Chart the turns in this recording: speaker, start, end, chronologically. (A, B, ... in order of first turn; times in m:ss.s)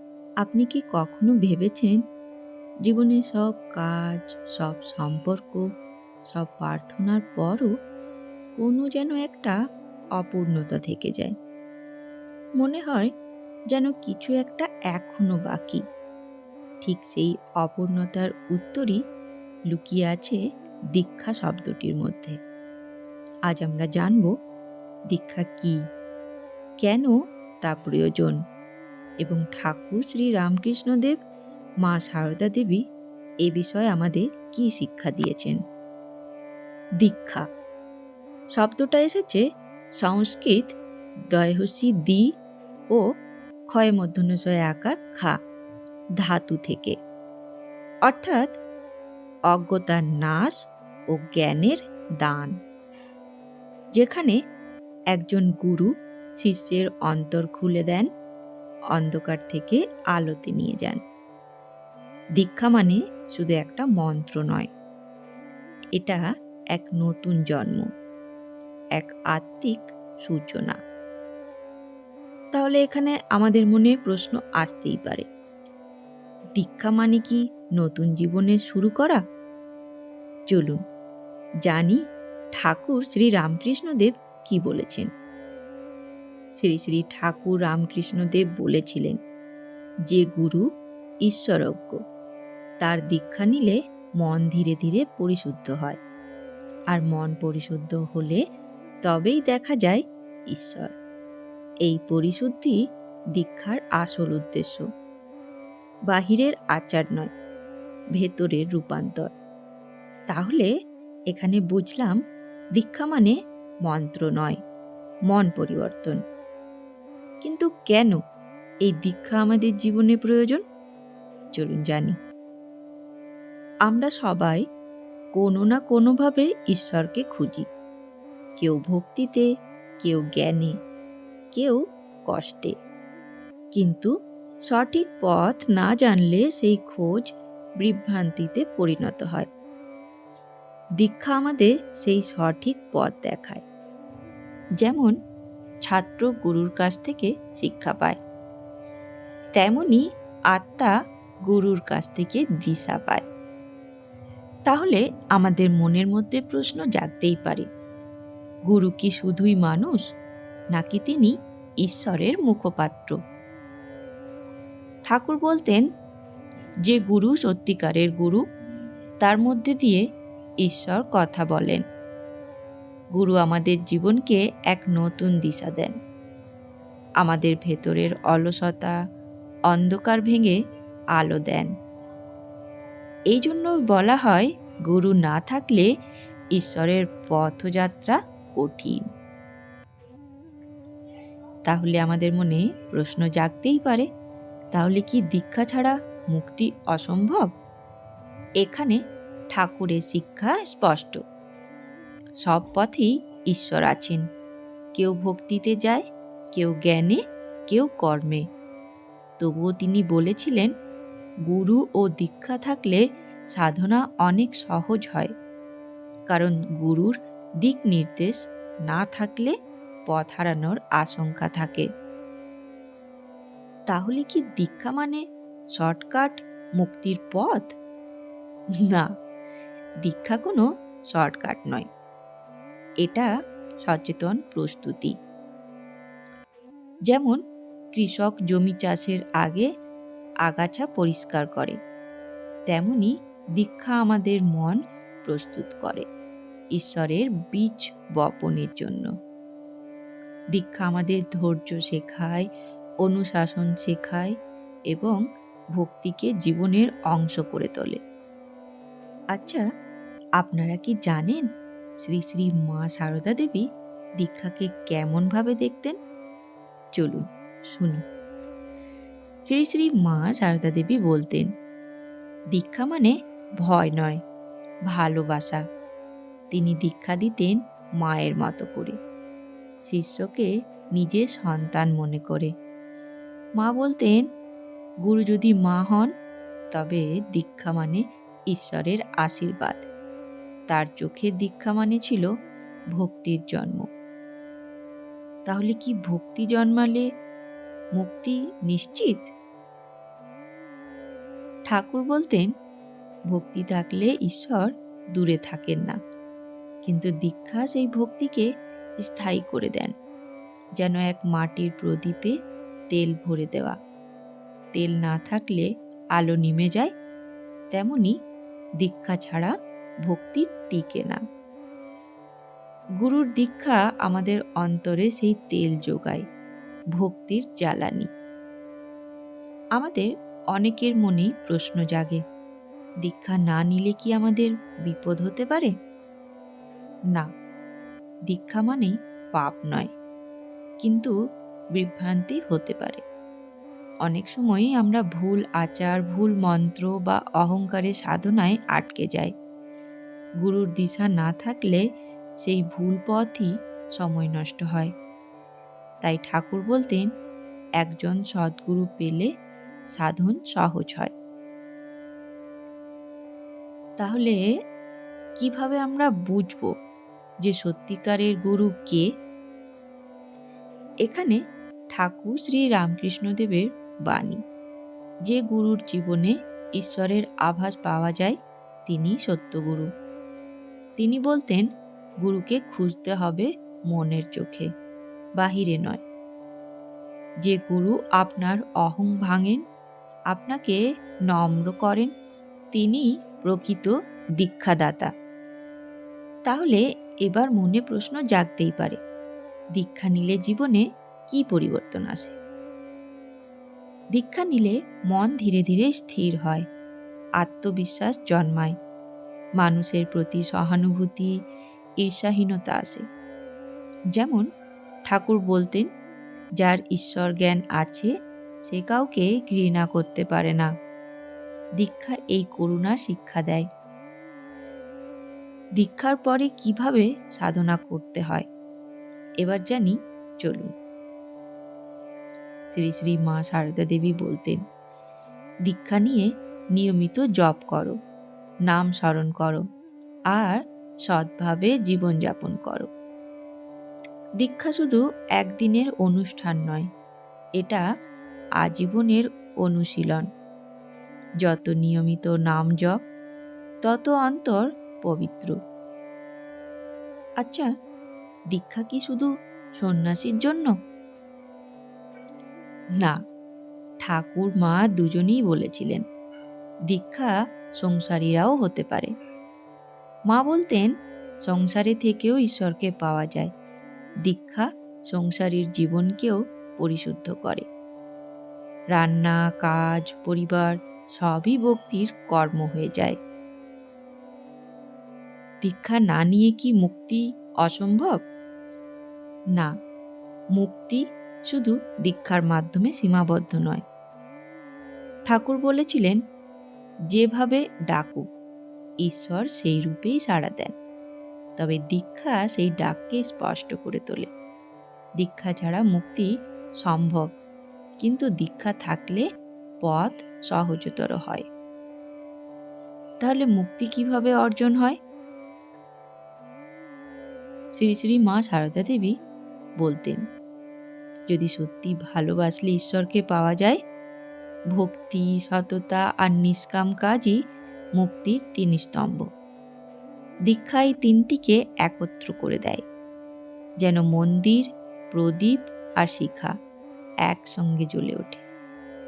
0:00.4-0:02.0 A
0:02.8-0:05.6 A
0:06.3-0:07.7 A
0:08.6-0:09.6 A
0:10.2-0:11.4 A
0:12.6-0:13.1 A
0:13.7-0:15.8 A
0:16.8-0:19.0 A
0:19.7-0:20.4 A
0:21.0-0:22.4 A
0:23.5-0:24.3 A
0:25.1-0:25.8 A
0:26.8-0:28.4 A
0:29.2-0:31.2 A
0:31.8-0:32.8 A
0:33.4-0:35.6 A
0:37.0-0:37.5 A
0:38.6-0:39.4 A
0:40.0-0:40.8 A
0:41.3-0:42.3 A
0:43.7-0:45.4 A
0:46.2-0:47.0 A
0:48.0-0:48.6 A
0:49.5-0:52.6 A
0:54.0-0:54.4 A
0:55.1-0:58.1 A
0:58.9-1:01.0 A
1:02.4-1:04.7 A
1:06.0-1:06.2 A
1:06.8-1:07.9 A
1:09.0-1:10.8 A
1:12.5-1:15.3 A
1:16.6-1:19.2 A
1:20.5-1:20.8 A
1:21.6-1:22.0 A
1:22.6-1:25.1 A
1:26.6-1:29.2 A
1:30.1-1:30.7 A
1:31.2-1:32.0 A
1:32.8-1:36.0 A
1:36.9-1:38.4 A
1:39.0-1:40.9 A
1:41.8-1:42.8 A
1:43.4-1:44.9 A
1:46.1-1:47.3 A
1:48.2-1:49.3 A
1:50.3-1:50.7 A
1:51.3-1:52.2 A
1:52.8-1:53.3 A
1:53.8-1:54.6 A
1:55.3-1:56.2 A
1:57.4-1:58.2 A
1:58.8-2:00.6 A
2:01.6-2:02.2 A
2:03.9-2:04.6 A
2:05.3-2:07.7 A
2:08.6-2:09.5 A
2:10.0-2:10.8 A
2:11.5-2:12.7 A
2:13.7-2:14.1 A
2:14.7-2:19.5 A
2:21.0-2:23.6 A
2:24.8-2:25.2 A
2:25.8-2:28.2 A
2:29.6-2:30.9 A
2:31.5-2:33.2 A
2:34.7-2:37.7 A
2:38.7-2:40.0 A
2:40.7-2:43.2 A
2:45.1-2:45.8 A
2:46.8-2:48.4 A
2:49.2-2:50.0 A
2:50.6-2:51.8 A
2:53.2-2:56.0 A
2:57.2-2:59.0 A
2:59.7-3:00.6 A
3:01.2-3:01.7 A
3:03.3-3:05.9 A
3:06.5-3:09.1 A
3:11.7-3:14.1 A
3:14.7-3:17.5 A
3:18.6-3:19.0 A
3:19.5-3:21.2 A
3:22.4-3:24.2 A
3:25.0-3:28.4 A
3:29.4-3:30.7 A
3:31.5-3:33.0 A
3:33.6-3:35.3 A
3:36.3-3:39.6 A
3:40.1-3:41.9 A
3:43.9-3:45.2 A
3:45.8-3:47.8 A
3:48.8-3:49.1 A
3:50.0-3:51.9 A
3:53.0-3:53.3 A
3:53.8-3:55.1 A
3:57.1-3:57.4 A
3:57.9-3:59.7 A
4:00.4-4:01.8 A
4:02.7-4:06.1 A
4:06.8-4:09.1 A
4:10.5-4:12.5 A
4:13.0-4:14.3 A
4:14.9-4:15.2 A
4:15.8-4:18.0 A
4:19.4-4:19.6 A
4:20.4-4:21.4 A
4:22.0-4:23.6 A
4:24.2-4:26.0 A
4:27.0-4:28.0 A
4:29.5-4:31.5 A
4:32.5-4:34.2 A
4:34.9-4:35.6 A
4:36.5-4:39.0 A
4:39.8-4:42.5 A
4:43.6-4:44.2 A
4:45.0-4:46.1 A
4:46.7-4:49.9 A
4:50.7-4:52.3 A
4:52.9-4:53.9 A
4:55.5-4:57.1 A
4:58.0-4:59.3 A
5:01.7-5:02.5 A
5:03.3-5:06.0 A
5:06.8-5:08.5 A
5:09.0-5:09.9 A
5:10.8-5:12.4 A
5:12.9-5:13.8 A
5:14.7-5:16.9 A
5:17.7-5:18.2 A
5:18.8-5:19.5 A
5:20.1-5:21.2 A
5:23.0-5:26.2 A
5:27.0-5:28.1 A
5:29.8-5:32.2 A
5:33.0-5:35.7 A
5:38.3-5:39.9 A
5:40.8-5:41.2 A
5:41.8-5:43.0 A
5:44.0-5:49.3 A
5:50.4-5:51.8 A
5:52.4-5:54.9 A
5:56.0-5:57.1 A
5:57.8-5:59.3 A
5:59.9-6:01.1 A
6:04.0-6:04.4 A
6:05.4-6:06.7 A
6:07.4-6:09.0 A
6:11.0-6:11.4 A
6:11.9-6:14.4 A
6:15.3-6:19.9 A
6:21.0-6:21.7 A
6:22.2-6:24.7 A
6:25.4-6:26.0 A
6:27.4-6:29.6 A
6:30.3-6:32.1 A
6:32.7-6:35.1 A
6:36.5-6:39.0 A
6:39.8-6:42.4 A
6:44.2-6:46.7 A
6:47.4-6:48.8 A
6:49.6-6:51.3 A
6:52.0-6:53.0 A
6:54.1-6:54.4 A
6:55.1-6:55.9 A
6:56.6-6:58.1 A
6:58.6-7:00.7 A
7:01.8-7:03.7 A
7:05.8-7:08.5 A
7:09.4-7:10.7 A
7:12.7-7:14.6 A
7:15.7-7:18.0 A
7:18.7-7:19.6 A
7:20.3-7:22.9 A
7:24.4-7:26.9 A
7:27.6-7:27.8 A
7:28.6-7:30.3 A
7:31.4-7:33.0 A
7:33.8-7:35.6 A
7:37.4-7:37.7 A
7:38.5-7:40.7 A
7:44.0-7:46.0 A
7:46.9-7:49.1 A
7:50.3-7:50.9 A
7:51.4-7:53.5 A
7:54.2-7:57.7 A
7:58.9-8:03.2 A
8:05.6-8:08.2 A
8:10.6-8:13.8 A
8:15.3-8:16.2 A
8:17.1-8:18.2 A
8:19.0-8:20.7 A
8:21.6-8:24.3 A
8:25.2-8:26.3 A
8:26.8-8:27.3 A
8:28.0-8:29.2 A
8:29.8-8:31.4 A
8:33.2-8:35.0 A
8:37.8-8:39.2 A
8:39.8-8:40.2 A
8:41.3-8:43.8 A
8:44.7-8:47.4 A
8:48.0-8:49.3 A
8:50.5-8:52.8 A
8:53.8-8:56.5 A
8:57.3-8:58.4 A